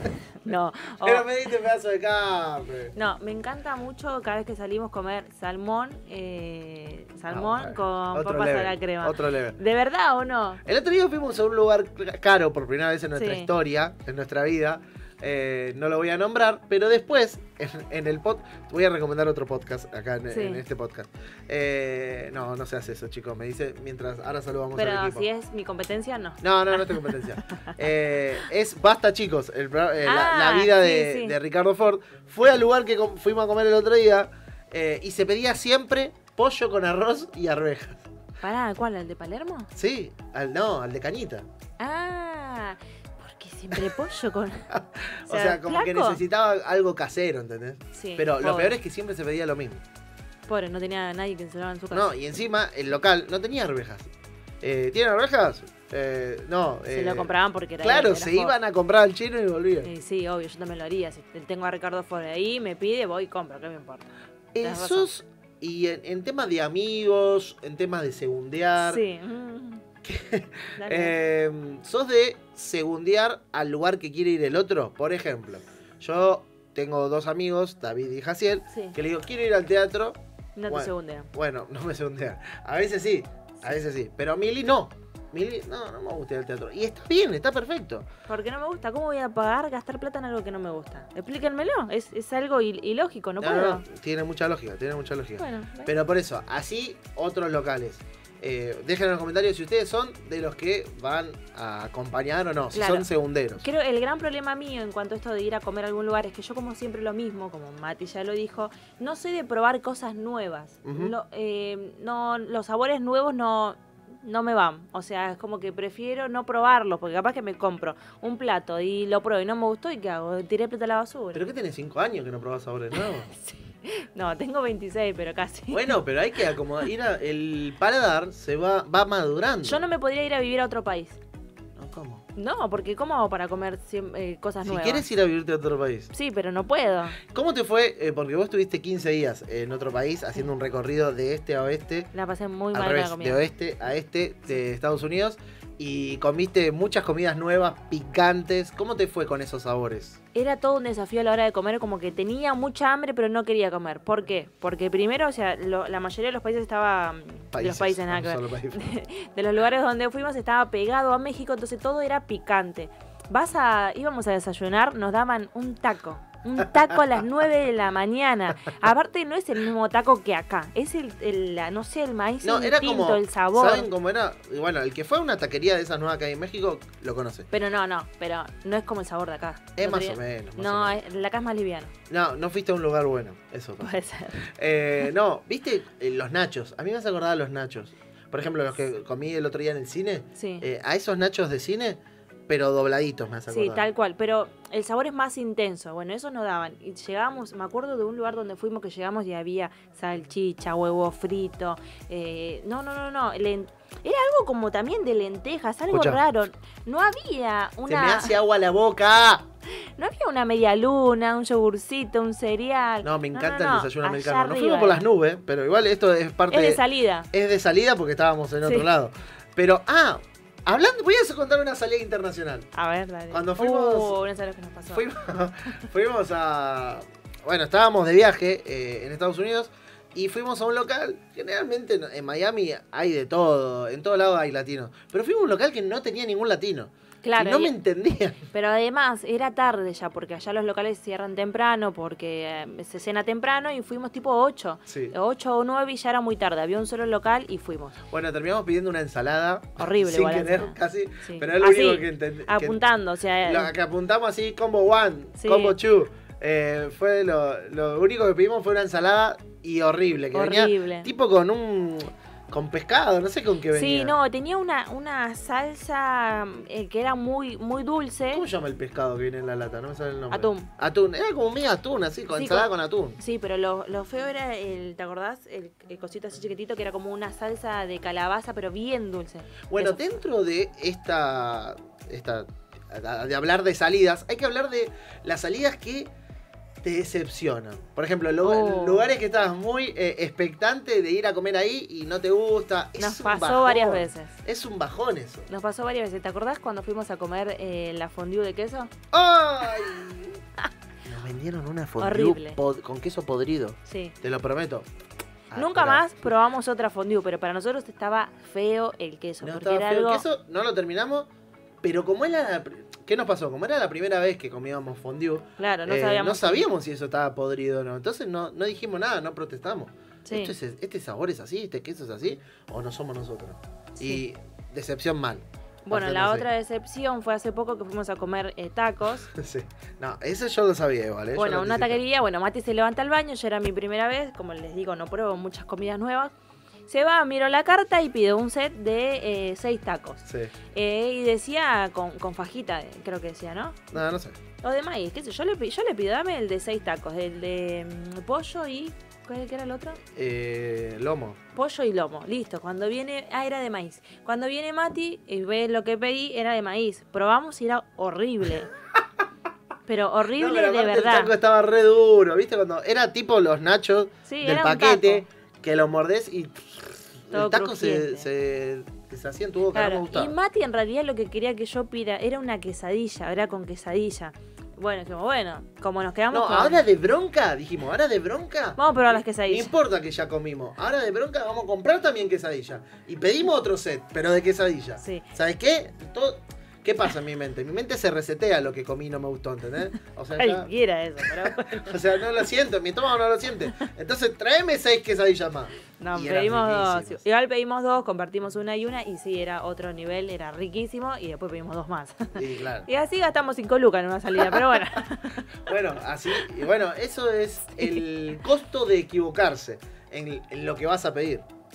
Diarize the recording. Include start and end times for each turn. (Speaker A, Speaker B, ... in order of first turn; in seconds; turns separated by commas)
Speaker A: 0.4-1.3, Speaker B: 1.0-2.9, Speaker A: 3.0-10.6, Speaker B: 7.3-9.6, Speaker B: 10.7-25.3, Speaker A: 13.2-13.5, Speaker A: 20.3-20.6, Speaker A: 24.8-27.8, Speaker B: 26.4-38.0, Speaker A: 30.0-31.4, Speaker A: 38.4-39.7, Speaker B: 39.8-41.5, Speaker A: 41.8-44.7, Speaker B: 44.7-49.8, Speaker A: 45.3-46.2, Speaker A: 48.0-48.8, Speaker A: 50.5-52.1, Speaker B: 51.9-54.1, Speaker B: 54.6-57.3, Speaker A: 56.9-58.5, Speaker B: 57.8-59.9, Speaker A: 59.8-65.1, Speaker B: 64.5-69.0, Speaker A: 68.8-69.8, Speaker B: 70.0-80.2, Speaker A: 70.8-71.2, Speaker A: 80.6-81.3, Speaker B: 80.7-88.1, Speaker A: 88.3-93.8, Speaker B: 93.4-103.7, Speaker A: 95.4-95.9, Speaker A: 102.7-103.1, Speaker A: 103.6-121.4, Speaker B: 110.8-111.2, Speaker B: 121.3-123.3, Speaker A: 122.9-126.0, Speaker B: 125.7-129.9, Speaker A: 129.6-131.2, Speaker B: 131.8-132.2, Speaker A: 132.3-135.1, Speaker B: 134.6-136.1, Speaker A: 136.1-137.2, Speaker B: 137.3-142.1, Speaker A: 142.1-143.4, Speaker B: 142.7-150.2, Speaker A: 150.3-173.9, Speaker B: 157.5-158.8, Speaker B: 172.4-177.5, Speaker A: 177.5-181.9, Speaker B: 179.8-181.0, Speaker B: 182.1-184.0, Speaker A: 183.8-184.4, Speaker B: 184.6-193.9, Speaker A: 190.4-190.7, Speaker A: 193.5-208.4, Speaker B: 205.9-206.2, Speaker B: 207.9-209.4, Speaker A: 210.0-215.1, Speaker B: 213.0-222.7, Speaker A: 216.5-217.3, Speaker A: 222.7-225.1, Speaker B: 223.3-224.2, Speaker B: 224.9-238.4, Speaker A: 237.2-237.7, Speaker A: 238.5-248.0, Speaker B: 244.9-245.1, Speaker B: 248.1-252.8, Speaker A: 249.8-253.7, Speaker B: 253.4-264.1, Speaker A: 255.4-255.8, Speaker A: 260.3-261.1, Speaker A: 263.7-268.4, Speaker B: 268.3-273.2, Speaker A: 270.3-270.7, Speaker A: 272.3-280.2, Speaker B: 279.7-286.1, Speaker B: 286.8-295.5, Speaker A: 288.4-289.1, Speaker A: 293.0-294.4, Speaker A: 295.5-298.9, Speaker B: 299.1-300.4, Speaker B: 301.1-304.9, Speaker A: 302.0-302.6, Speaker A: 303.9-304.2, Speaker B: 305.5-306.1, Speaker A: 305.6-310.3, Speaker B: 309.4-311.3, Speaker B: 311.8-326.5, Speaker A: 315.6-316.7, Speaker A: 320.2-320.5, Speaker A: 324.0-324.2, Speaker A: 325.9-329.3, Speaker B: 329.3-332.0, Speaker A: 331.4-336.3, Speaker A: 336.9-343.8, Speaker B: 340.3-340.5, Speaker B: 343.9-344.4, Speaker A: 344.6-350.0, Speaker B: 350.1-351.4, Speaker A: 351.5-358.7, Speaker A: 359.9-361.4, Speaker B: 360.3-370.3, Speaker A: 364.3-365.2, Speaker A: 367.3-368.3, Speaker A: 369.7-376.8, Speaker B: 376.3-390.7, Speaker A: 378.8-379.7, Speaker A: 385.0-385.3, Speaker A: 390.4-392.0, Speaker B: 391.2-397.2, Speaker A: 396.0-405.5, Speaker B: 402.4-402.9, Speaker B: 404.4-405.0, Speaker B: 405.7-411.5